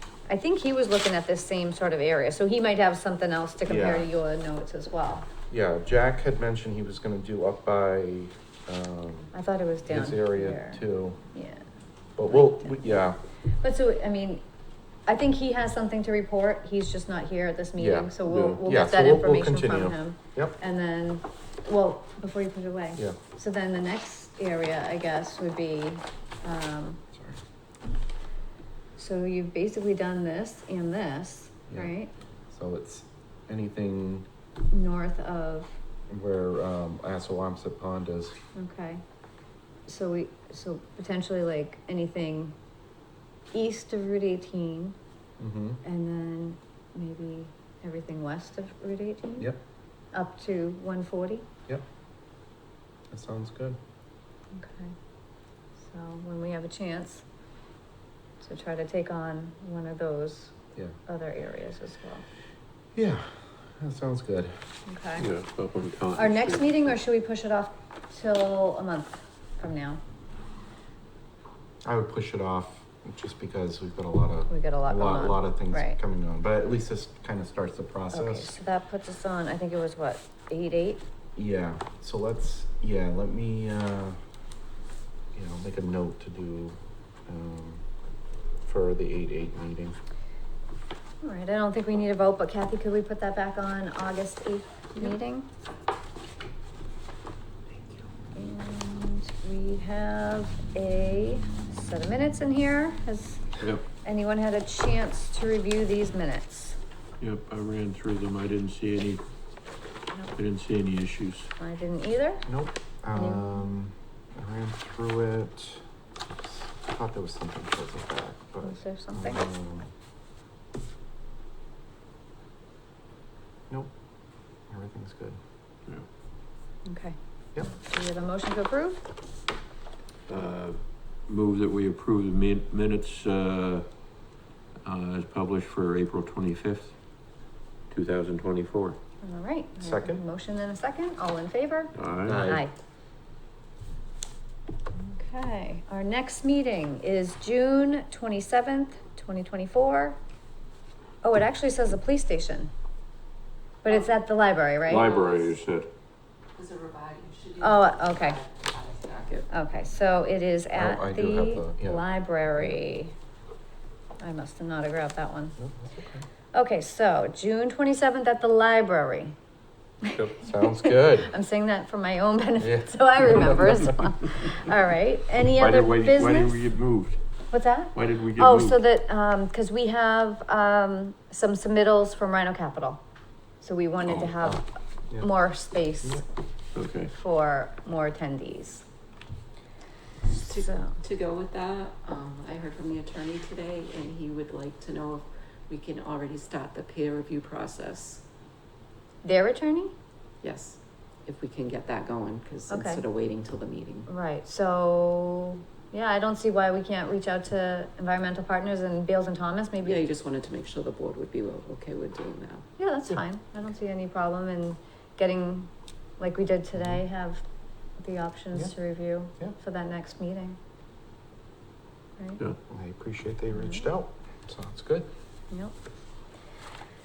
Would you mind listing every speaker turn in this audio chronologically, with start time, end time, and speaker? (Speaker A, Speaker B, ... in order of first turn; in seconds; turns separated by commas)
Speaker A: 0.3-5.3, Speaker B: 3.6-4.1, Speaker B: 5.5-9.3, Speaker A: 9.3-10.8, Speaker B: 9.9-11.2, Speaker A: 11.3-11.6, Speaker B: 12.2-13.2, Speaker A: 12.3-12.9, Speaker A: 13.6-14.4, Speaker A: 15.1-27.0, Speaker B: 17.8-20.6, Speaker C: 18.3-18.6, Speaker B: 27.1-27.4, Speaker A: 29.0-32.1, Speaker B: 32.5-34.3, Speaker A: 34.7-35.8, Speaker B: 36.1-38.4, Speaker A: 38.5-39.0, Speaker A: 39.9-42.5, Speaker A: 43.5-45.0, Speaker B: 45.4-45.8, Speaker A: 45.8-49.5, Speaker A: 50.1-51.5, Speaker B: 53.1-53.8, Speaker A: 54.5-54.9, Speaker A: 55.8-57.2, Speaker A: 58.4-62.2, Speaker B: 62.9-64.5, Speaker A: 64.9-65.3, Speaker C: 65.2-66.9, Speaker A: 66.2-70.0, Speaker B: 71.8-78.5, Speaker A: 74.5-76.0, Speaker A: 78.1-81.0, Speaker B: 81.3-84.2, Speaker B: 85.3-87.8, Speaker B: 88.6-90.0, Speaker A: 91.2-95.5, Speaker A: 98.3-103.5, Speaker A: 104.0-106.8, Speaker C: 107.2-109.2, Speaker C: 110.3-111.5, Speaker A: 111.6-112.5, Speaker B: 112.5-119.9, Speaker A: 113.2-113.6, Speaker A: 118.6-119.4, Speaker B: 124.7-125.4, Speaker A: 126.8-129.0, Speaker C: 130.3-133.9, Speaker C: 134.8-137.0, Speaker C: 137.9-139.0, Speaker A: 139.2-142.7, Speaker B: 139.8-140.2, Speaker C: 141.9-142.4, Speaker B: 142.2-142.6, Speaker A: 145.0-150.2, Speaker A: 151.2-152.7, Speaker A: 153.8-155.1, Speaker C: 154.8-155.9, Speaker D: 155.1-155.5, Speaker D: 156.6-159.4, Speaker A: 157.6-158.4, Speaker A: 159.5-163.1, Speaker B: 160.7-162.1, Speaker A: 164.2-165.5, Speaker B: 165.6-166.2, Speaker A: 166.5-169.3, Speaker A: 170.0-176.6, Speaker B: 170.3-171.3, Speaker B: 172.6-173.7, Speaker C: 175.6-177.2, Speaker A: 177.5-183.0, Speaker C: 177.9-178.8, Speaker A: 183.6-184.6, Speaker A: 185.2-186.2, Speaker C: 186.7-187.1, Speaker A: 187.1-188.8, Speaker D: 190.3-198.2, Speaker A: 190.6-191.0, Speaker A: 199.2-199.9, Speaker D: 200.4-204.1, Speaker A: 202.7-203.0, Speaker A: 204.1-210.1, Speaker D: 209.8-212.7, Speaker A: 212.8-217.4, Speaker A: 218.0-220.6, Speaker B: 222.7-225.1, Speaker A: 223.5-223.8